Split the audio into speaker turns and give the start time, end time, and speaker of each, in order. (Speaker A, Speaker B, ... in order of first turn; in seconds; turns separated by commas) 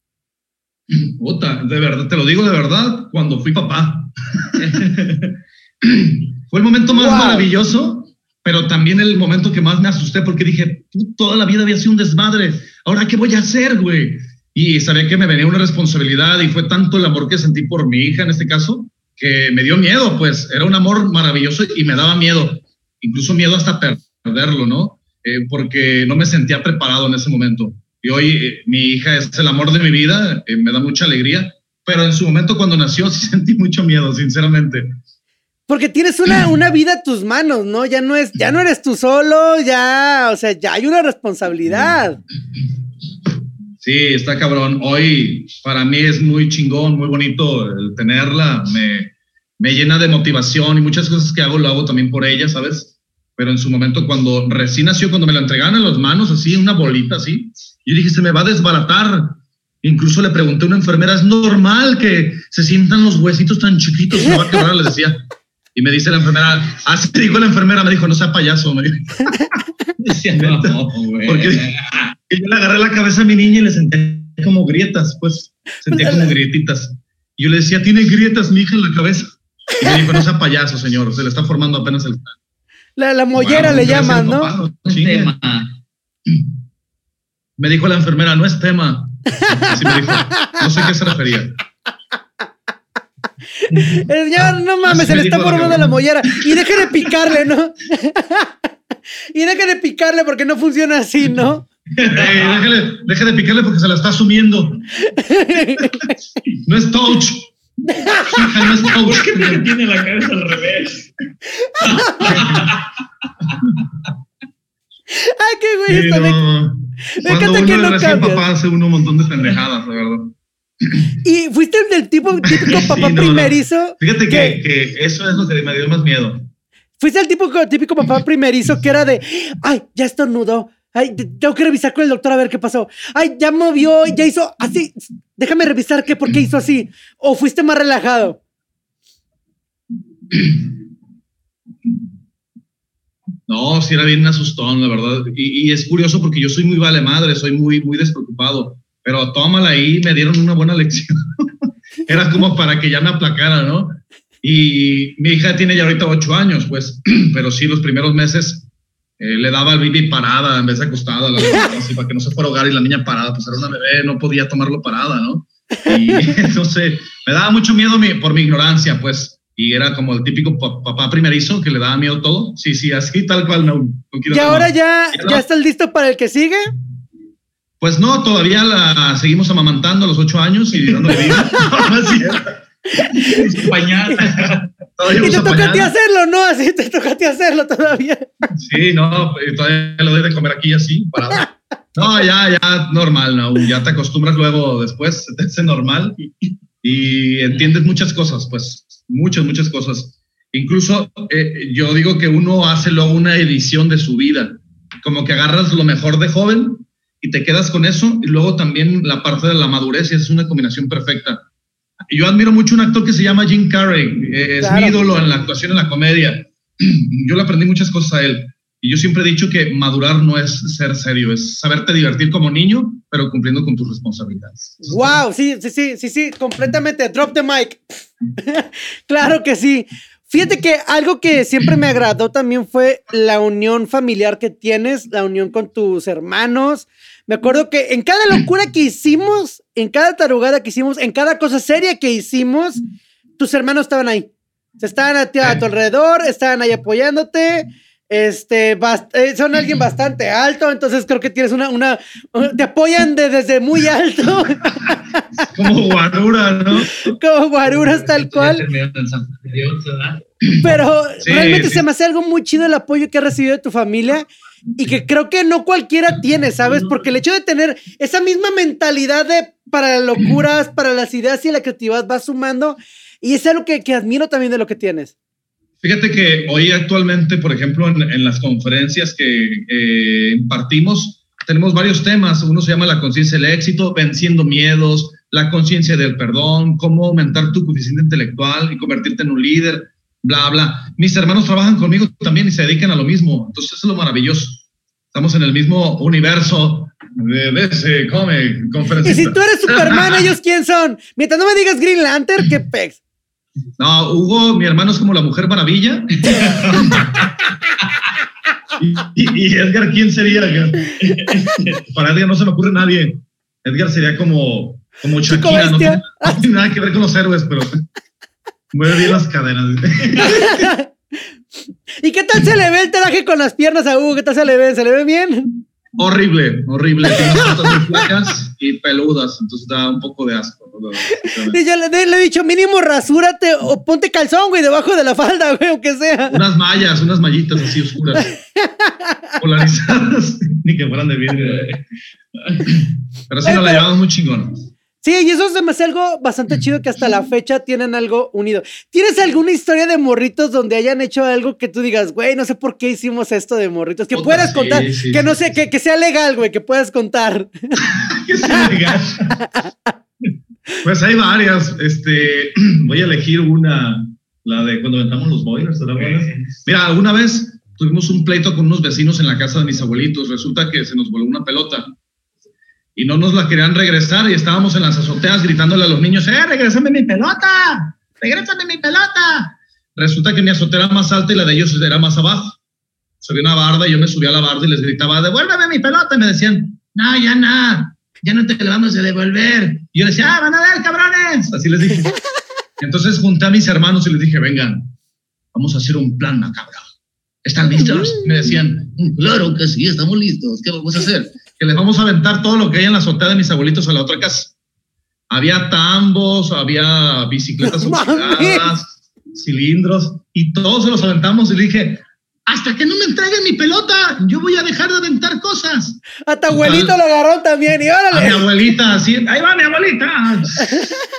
Speaker A: 0.9-35.0, Speaker B: 6.9-7.5, Speaker B: 35.7-42.2, Speaker A: 43.8-65.2, Speaker A: 65.7-69.4, Speaker C: 70.0-71.9, Speaker A: 70.3-82.3, Speaker B: 75.9-76.3, Speaker B: 83.0-84.5, Speaker A: 83.3-85.3, Speaker C: 84.8-85.7, Speaker A: 87.6-91.6, Speaker B: 89.4-90.6, Speaker B: 93.6-98.5, Speaker A: 94.8-97.1, Speaker B: 99.3-101.7, Speaker C: 102.0-102.6, Speaker A: 102.0-104.9, Speaker B: 105.0-106.1, Speaker A: 106.5-107.5, Speaker B: 107.8-108.5, Speaker A: 108.1-109.7, Speaker C: 108.8-111.1, Speaker B: 111.7-112.4, Speaker C: 111.8-112.9, Speaker A: 112.3-112.7, Speaker B: 115.1-116.4, Speaker A: 115.9-120.3, Speaker B: 117.1-118.4, Speaker B: 121.2-124.6, Speaker A: 122.5-126.5, Speaker B: 127.0-138.4, Speaker A: 143.5-158.7, Speaker A: 159.2-175.4, Speaker B: 165.9-166.3, Speaker B: 174.3-176.7, Speaker A: 177.8-185.9, Speaker B: 181.2-181.9, Speaker B: 182.9-183.5, Speaker C: 183.3-184.6, Speaker B: 185.1-188.3, Speaker A: 188.6-211.4, Speaker A: 212.1-225.2, Speaker B: 214.6-215.0, Speaker B: 224.8-242.8, Speaker B: 243.4-255.5, Speaker A: 255.4-257.1, Speaker B: 256.7-258.6, Speaker C: 257.7-260.2, Speaker B: 260.6-275.1, Speaker A: 261.2-261.8, Speaker A: 275.8-300.2, Speaker B: 299.0-303.0, Speaker A: 303.8-307.2, Speaker A: 308.8-317.8, Speaker C: 311.1-311.8, Speaker B: 315.2-316.4, Speaker A: 318.7-320.7, Speaker B: 320.2-320.9, Speaker B: 322.0-325.6, Speaker A: 325.9-331.6, Speaker B: 327.3-328.0, Speaker B: 331.2-336.4, Speaker A: 336.3-338.3, Speaker B: 338.1-339.2, Speaker A: 339.4-341.8, Speaker C: 341.3-341.8, Speaker A: 342.6-344.7, Speaker B: 343.4-343.9, Speaker B: 345.0-357.8, Speaker A: 354.1-355.5, Speaker A: 357.8-359.4, Speaker B: 359.4-359.7, Speaker A: 360.8-371.9, Speaker C: 366.0-366.5, Speaker A: 372.9-382.6, Speaker A: 383.2-392.1, Speaker A: 392.8-394.9, Speaker A: 395.5-396.9, Speaker A: 397.4-404.5, Speaker A: 405.3-417.0, Speaker B: 407.6-408.7, Speaker B: 416.3-418.4, Speaker A: 418.1-420.9